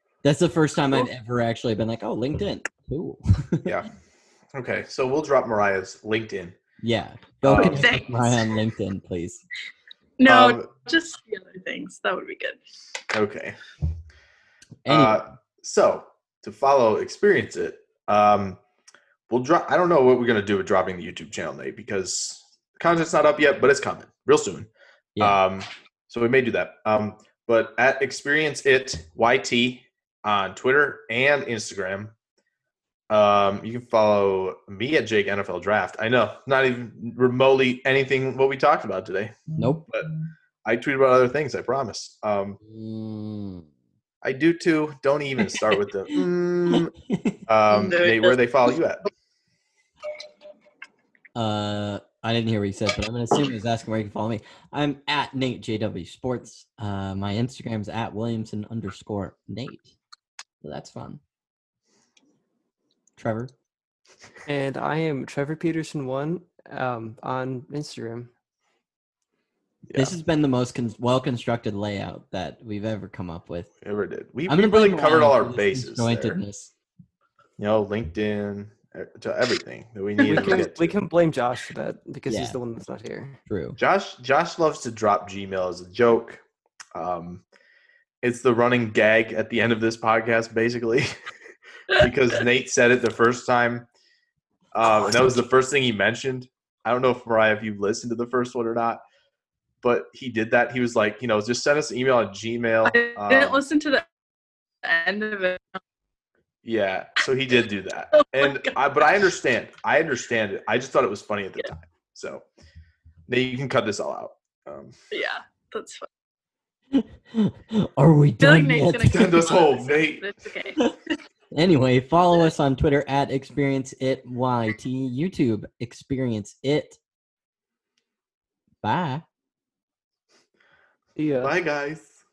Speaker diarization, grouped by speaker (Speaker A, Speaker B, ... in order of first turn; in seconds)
Speaker A: 0.2-3.7, 6.8-9.4, 14.8-15.2, 39.6-39.9, 42.6-43.6, 47.1-47.4, 51.4-59.9, 60.6-61.2, 63.2-63.5, 69.9-73.7, 74.5-76.7, 82.3-82.6, 83.5-83.8, 116.9-119.5, 121.5-127.0, 128.8-129.2
Speaker B: 4.5-6.5, 7.4-7.9, 10.2-10.7, 13.1-13.6, 14.9-18.6, 19.3-32.1, 33.1-40.1, 40.6-42.6, 44.2-46.9, 47.5-49.0, 69.9-70.1, 73.8-76.4, 77.6-80.9, 83.8-86.4, 86.9-87.4, 88.2-91.1, 91.9-93.9, 94.7-99.0, 99.8-103.6, 106.6-112.4, 113.3-114.9, 119.1-120.2, 131.4-132.2
Speaker C: 7.6-8.5, 10.2-12.6, 47.7-48.8, 80.2-80.6, 102.8-104.0, 104.8-105.8, 108.2-108.8, 115.1-116.1, 118.4-120.8
Speaker D: 64.5-68.3, 80.2-83.4, 131.2-131.5